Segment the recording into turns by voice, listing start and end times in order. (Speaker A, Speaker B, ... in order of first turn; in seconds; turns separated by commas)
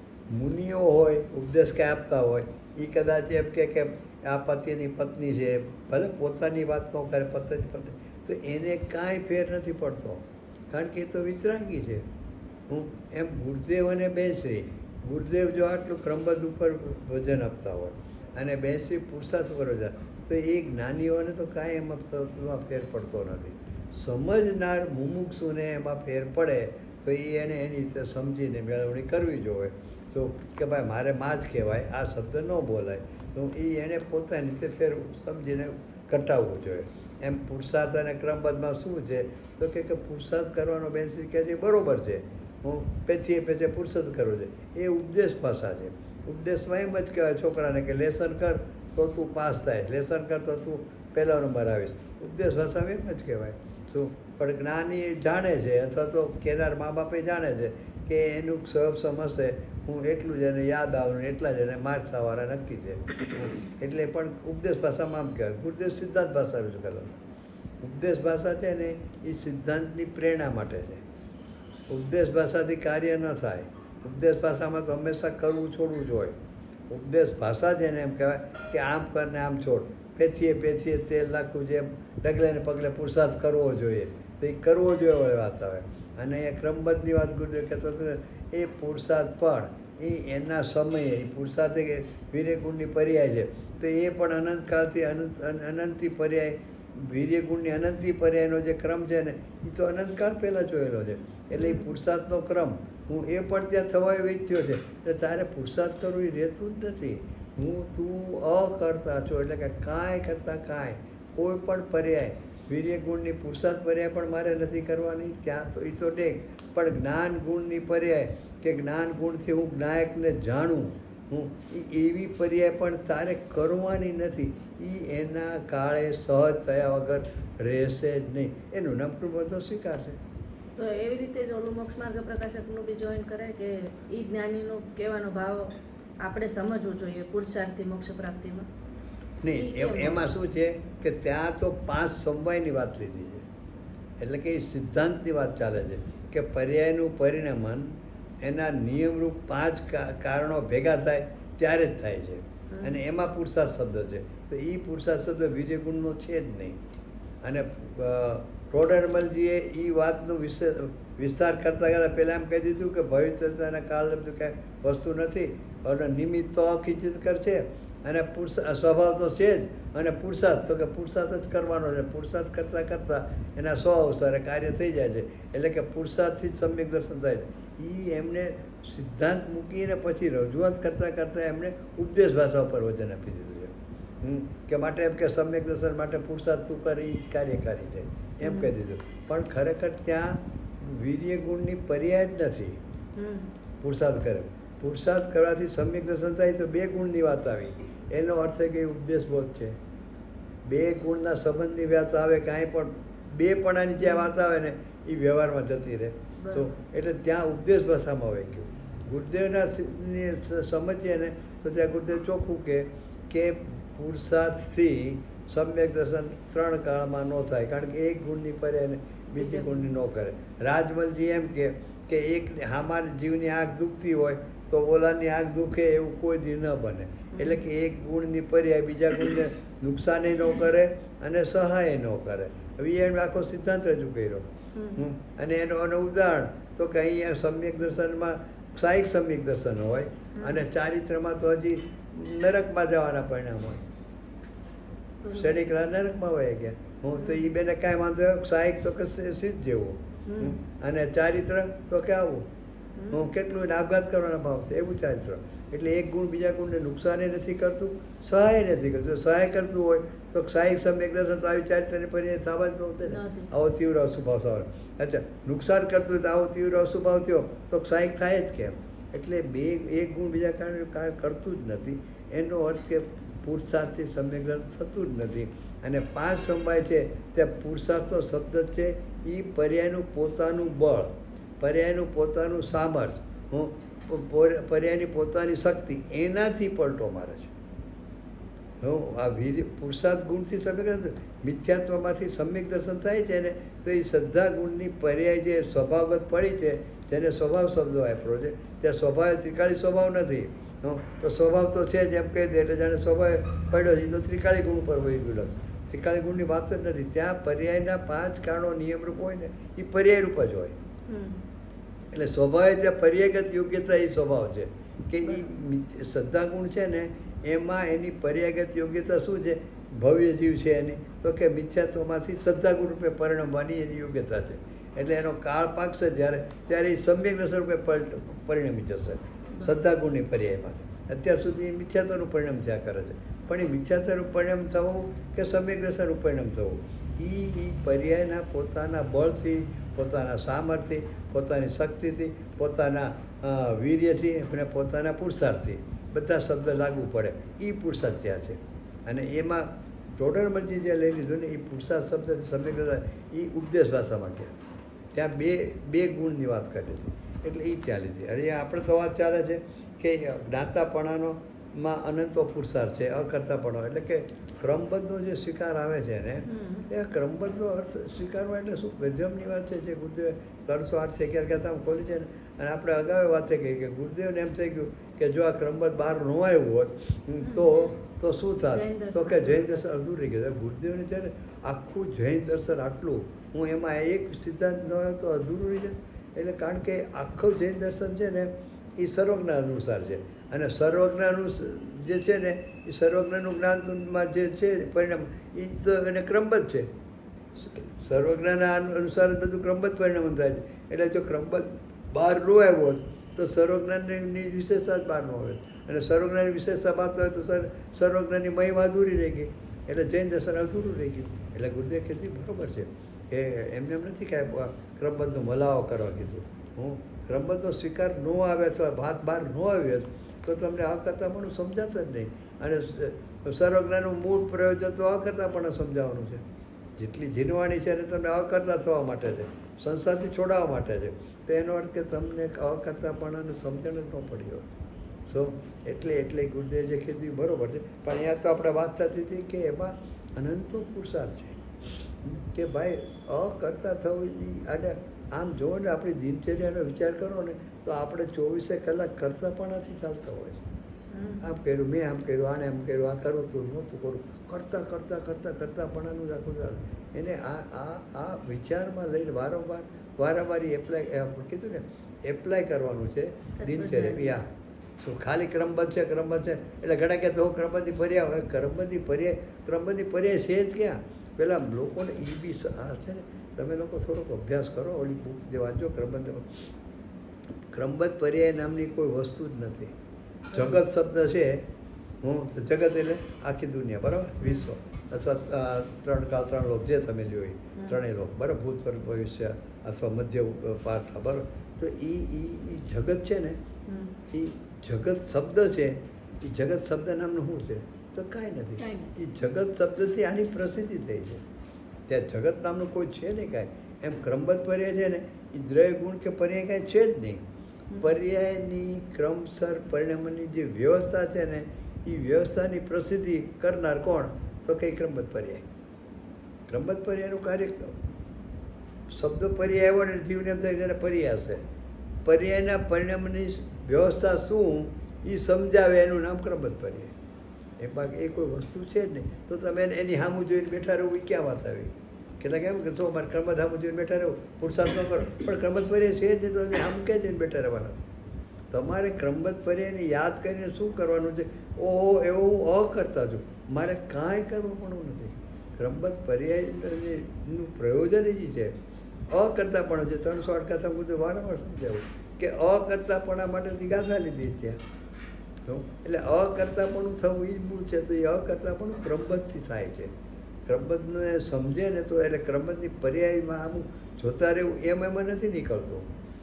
Speaker A: 0.3-12.1, Speaker A: 12.7-67.2, Speaker A: 67.8-71.0, Speaker A: 71.9-76.3, Speaker A: 76.9-130.2, Speaker B: 101.5-101.9, Speaker B: 130.8-138.7, Speaker A: 139.4-143.4, Speaker B: 139.5-140.3, Speaker A: 144.2-156.8, Speaker B: 152.7-153.0, Speaker A: 157.4-192.8, Speaker B: 188.4-188.7, Speaker B: 193.2-193.5, Speaker A: 193.8-199.8, Speaker A: 200.7-243.8, Speaker B: 204.0-204.3, Speaker B: 206.4-206.7, Speaker B: 219.4-219.7, Speaker B: 227.3-227.6, Speaker B: 234.8-235.0, Speaker B: 240.4-240.6, Speaker B: 245.2-245.6, Speaker A: 245.3-252.5, Speaker B: 247.2-247.4, Speaker B: 250.3-250.6, Speaker B: 253.0-253.3, Speaker A: 253.1-287.5, Speaker B: 263.1-263.5, Speaker A: 288.8-310.8, Speaker B: 311.1-311.4, Speaker A: 312.1-354.5, Speaker A: 355.1-396.9, Speaker B: 366.5-366.9, Speaker B: 377.4-377.9, Speaker B: 378.7-379.8, Speaker A: 397.6-426.4, Speaker A: 427.0-434.7, Speaker A: 435.3-450.6, Speaker B: 451.1-451.5, Speaker A: 451.4-464.5, Speaker B: 463.6-464.4, Speaker A: 465.0-476.7, Speaker A: 477.7-479.9, Speaker B: 480.5-480.8, Speaker A: 480.5-481.6, Speaker A: 482.2-493.6, Speaker B: 484.4-484.7, Speaker B: 493.9-494.2, Speaker A: 494.3-501.4, Speaker B: 498.8-499.1, Speaker A: 502.1-507.4, Speaker A: 508.0-515.6, Speaker A: 516.7-518.0, Speaker A: 519.1-521.6, Speaker A: 522.2-527.1, Speaker A: 527.8-538.0, Speaker A: 538.7-548.8, Speaker A: 549.3-554.8, Speaker A: 555.7-560.1, Speaker A: 560.7-566.1